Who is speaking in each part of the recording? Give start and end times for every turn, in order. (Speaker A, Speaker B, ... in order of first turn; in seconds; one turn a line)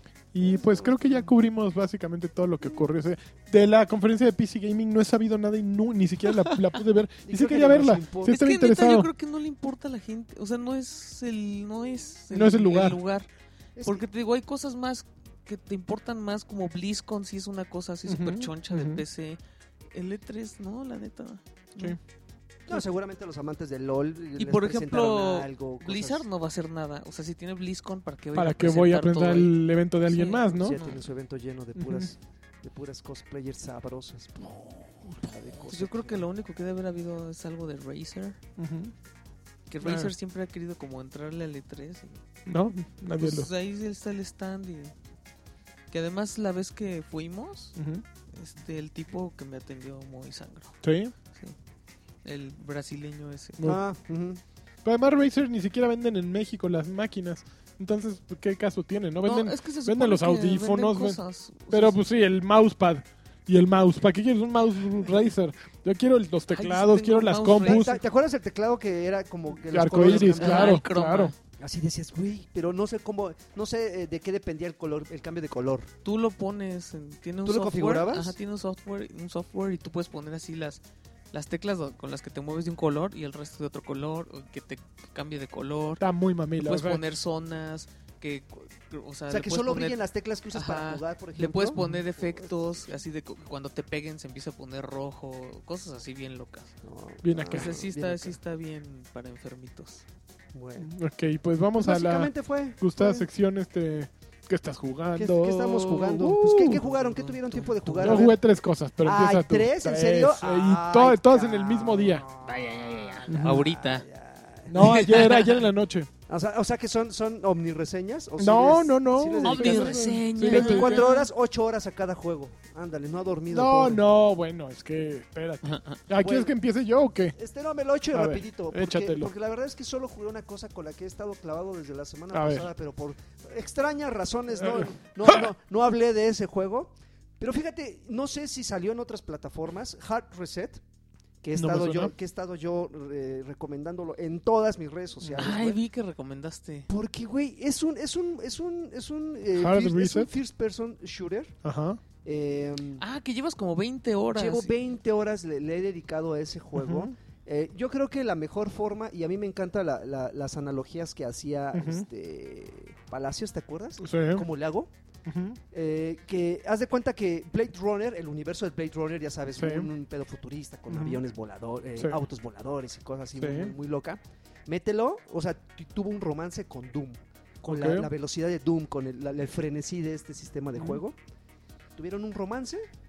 Speaker A: 0.3-9.1
Speaker B: 0.6-1.1
Speaker B: 7.2-8.4
Speaker C: 8.2-13.3
Speaker A: 12.3-13.0
Speaker B: 13.8-14.0
Speaker C: 13.8-19.4
Speaker A: 18.1-19.0
Speaker C: 19.9-22.0
Speaker B: 22.7-26.2
Speaker C: 24.4-29.6
Speaker A: 28.3-30.8
Speaker C: 30.1-31.0
Speaker B: 30.6-36.2
Speaker A: 31.8-32.1
Speaker C: 35.6-38.4
Speaker A: 38.6-38.9
Speaker C: 39.7-42.2
Speaker A: 39.8-40.1
Speaker A: 42.5-43.5
Speaker C: 43.2-44.9
Speaker C: 45.9-47.8
Speaker A: 47.8-48.0
Speaker C: 48.3-50.8
Speaker A: 50.8-51.1
Speaker C: 52.2-53.7
Speaker B: 53.6-54.4
Speaker A: 54.8-68.0
Speaker C: 59.2-62.0
Speaker C: 66.5-67.9
Speaker B: 67.6-70.8
Speaker A: 69.7-71.3
Speaker C: 70.0-71.3
Speaker B: 71.6-75.9
Speaker C: 76.0-80.8
Speaker B: 77.4-78.3
Speaker C: 81.3-86.0
Speaker A: 86.0-87.0
Speaker C: 86.6-90.0
Speaker B: 89.3-92.5
Speaker C: 90.5-96.7
Speaker B: 96.8-98.4
Speaker A: 97.2-97.8
Speaker C: 97.5-100.0
Speaker B: 100.5-100.9
Speaker A: 100.8-106.8
Speaker B: 101.8-103.3
Speaker B: 105.2-108.4
Speaker C: 106.7-108.3
Speaker A: 108.0-112.2
Speaker B: 109.0-115.0
Speaker C: 112.4-114.0
Speaker A: 113.3-113.6
Speaker A: 114.7-116.1
Speaker C: 114.8-115.6
Speaker B: 116.3-124.0
Speaker A: 118.4-121.0
Speaker C: 119.4-121.3
Speaker A: 123.5-127.3
Speaker C: 125.6-126.0
Speaker B: 126.2-126.5
Speaker B: 127.3-140.8
Speaker A: 128.1-129.3
Speaker A: 132.3-132.7
Speaker A: 134.6-135.5
Speaker B: 141.4-145.8
Speaker A: 141.6-142.1
Speaker A: 145.2-145.6
Speaker C: 145.4-146.9
Speaker B: 146.9-151.6
Speaker A: 149.5-150.3
Speaker A: 151.6-152.0
Speaker B: 152.2-153.0
Speaker C: 153.0-154.7
Speaker B: 154.3-164.9
Speaker A: 156.7-157.1
Speaker A: 161.7-162.1
Speaker A: 164.0-164.5
Speaker A: 165.2-165.6
Speaker B: 165.7-181.2
Speaker A: 169.6-169.9
Speaker A: 170.9-171.2
Speaker A: 173.4-173.7
Speaker A: 177.6-178.1
Speaker B: 181.9-182.8